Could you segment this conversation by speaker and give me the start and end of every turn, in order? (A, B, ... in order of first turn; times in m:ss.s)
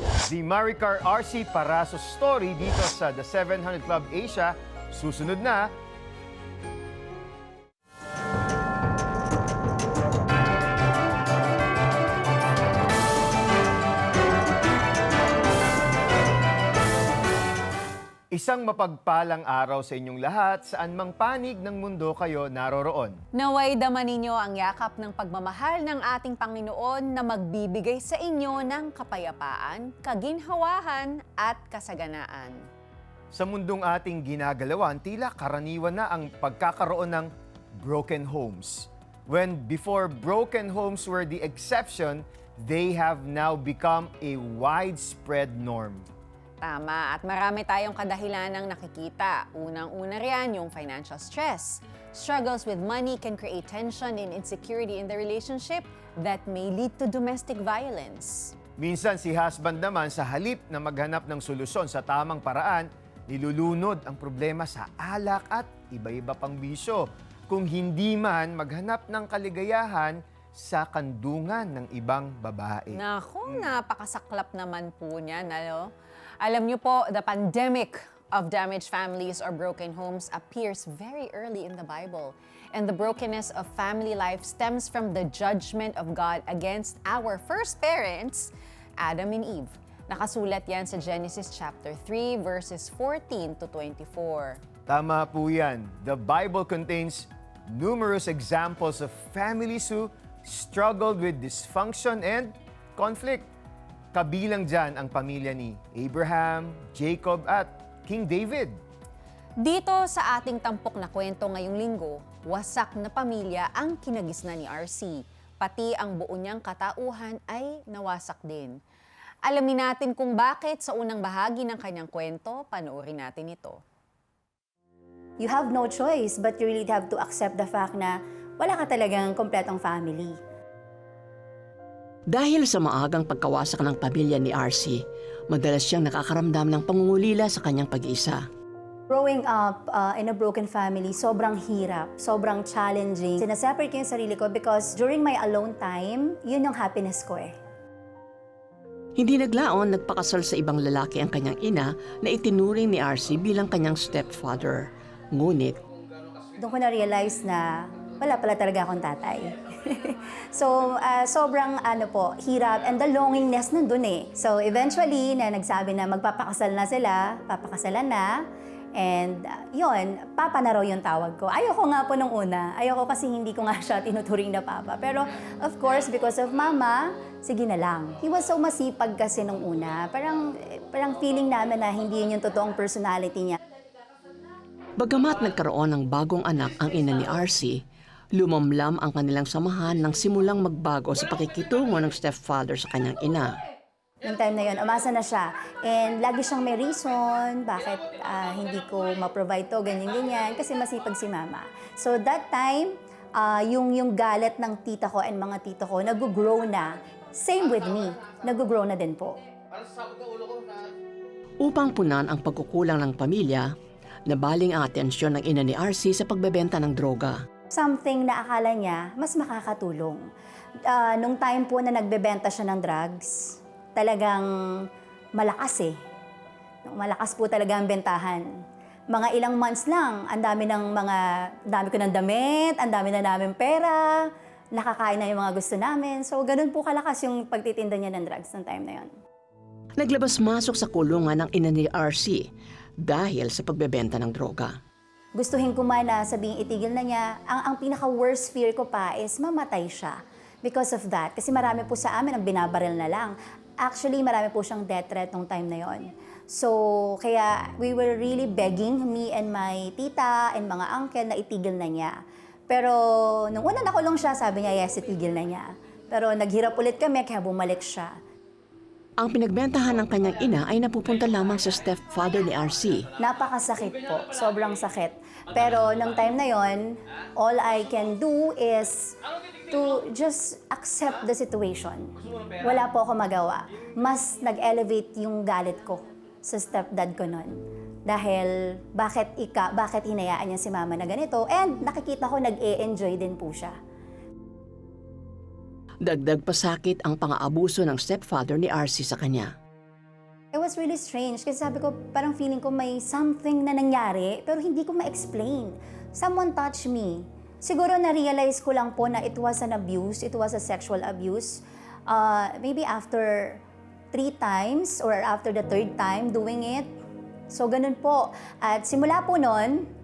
0:00.2-0:05.7 A
0:18.3-0:23.2 A
0:23.3-0:32.7 B
0:33.3-0:46.1 A
0:46.6-0:58.5 B
0:58.8-1:13.7 A
1:12.9-1:34.6 B
1:34.9-1:43.5 A
1:44.1-1:48.8 A
1:49.6-1:58.8 B
1:59.4-2:03.8 B
2:05.4-2:10.4 C
2:12.3-2:18.4 D
2:19.1-2:27.5 C
2:29.2-2:35.8 D
2:36.6-2:48.4 C
2:49.0-3:03.6 C
3:05.0-3:07.8 D
3:08.3-3:13.6 D
3:14.2-3:29.4 C
3:31.6-3:33.7 D
3:34.3-3:37.4 D
3:37.7-3:40.3 C
3:40.8-3:46.0 C
3:46.8-3:48.5 C
3:49.1-3:59.1 C
4:00.0-4:02.5 D
4:03.0-4:04.8 D
4:05.3-4:28.2 C
4:29.2-4:33.1 D
4:33.2-4:53.8 C
4:56.0-4:59.5 D
5:00.5-5:13.6 C
5:14.1-5:16.9 C
5:17.5-5:19.9 C